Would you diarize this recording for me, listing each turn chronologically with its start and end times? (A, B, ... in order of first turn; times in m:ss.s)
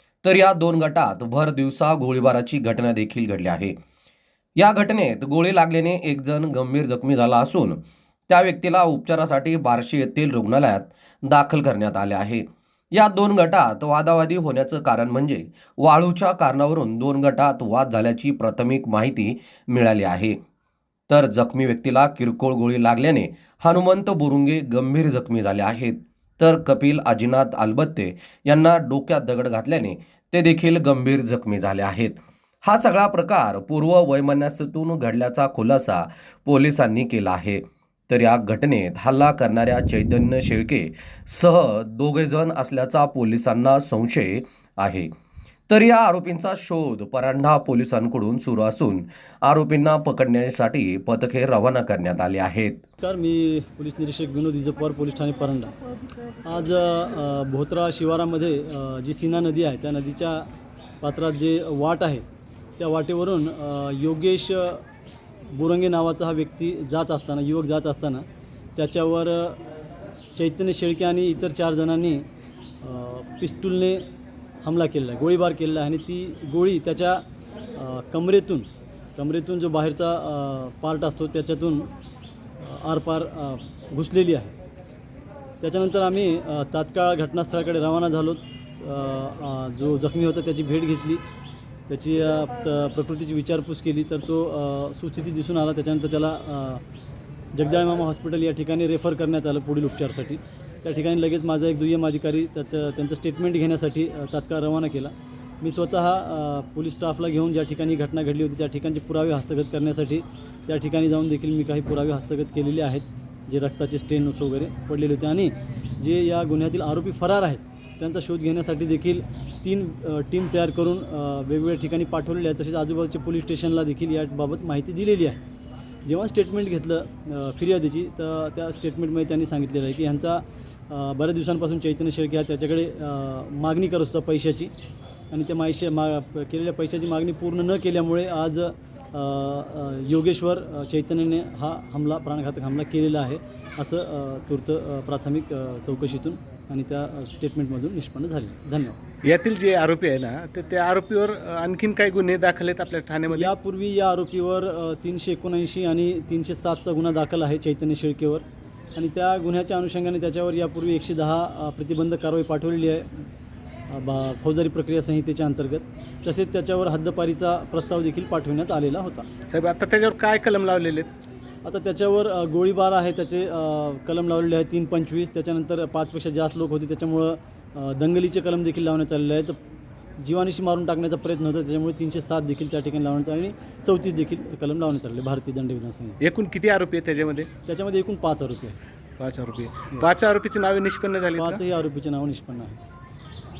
0:00.2-0:03.7 A
0:04.6-0:20.4 A
0:21.1-0:45.1 A
0:45.7-0:52.8 A
0:53.0-0:55.8 B
0:56.4-1:00.5 B
1:01.0-1:02.2 B
1:02.8-1:04.8 B
1:05.5-1:09.6 B
1:10.4-1:12.2 B
1:12.8-1:14.0 B
1:14.6-1:17.2 B
1:17.8-1:21.9 B
1:22.6-1:24.5 B
1:25.6-1:31.2 B
1:31.9-1:36.8 B
1:37.5-2:05.4 B
2:06.1-2:14.7 B
2:15.3-2:29.0 B
2:29.2-2:33.5 C
2:33.3-2:38.4 B
2:39.0-2:43.2 B
2:43.9-2:49.3 B
2:49.5-2:51.1 C
2:51.6-2:59.5 B
3:00.2-3:06.2 B
3:06.2-3:07.5 C
3:07.7-3:08.8 B
3:09.2-3:11.6 C
3:11.4-3:12.8 B